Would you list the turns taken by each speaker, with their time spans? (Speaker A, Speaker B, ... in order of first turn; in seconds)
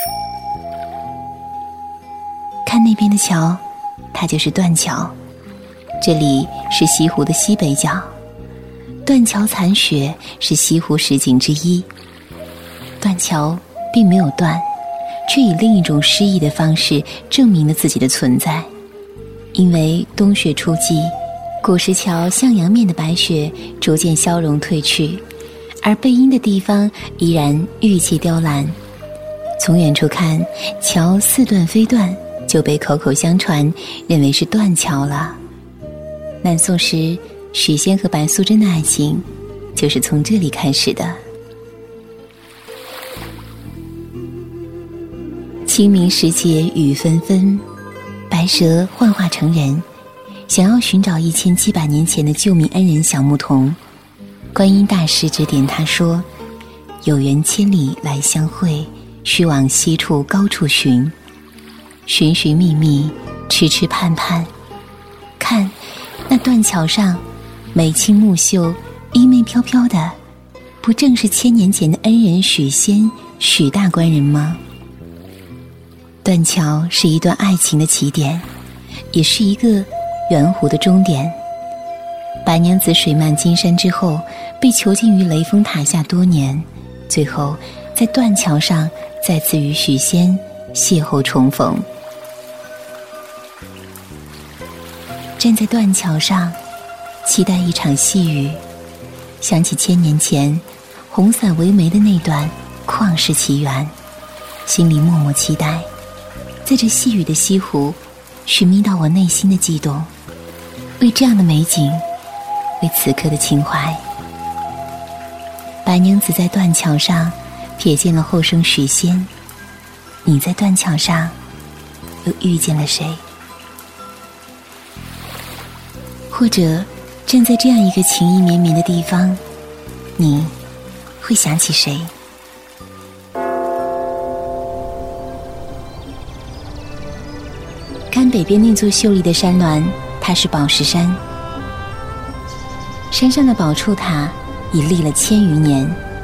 Speaker A: 2.6-3.6, 4.1-5.2, 6.0-8.1, 9.1-11.9, 13.0-14.7, 15.3-18.7, 19.5-25.2, 25.8-28.8, 29.6-35.4, 36.4-39.2, 39.7-41.2, 45.6-47.6, 48.3-49.8, 50.5-53.8, 54.5-56.3, 57.0-61.1, 62.1-64.5, 65.4-65.8, 66.3-70.2, 70.8-74.6, 76.2-78.5, 79.1-81.4, 82.4-91.8, 95.4-96.6, 97.2-98.6, 99.4-103.9, 104.7-105.9, 106.6-110.1, 111.0-112.0, 112.8-114.0, 115.8-119.3, 120.2-121.3, 122.2-123.2, 126.3-129.4, 130.2-130.5, 131.2-132.1, 138.1-141.2, 143.1-146.0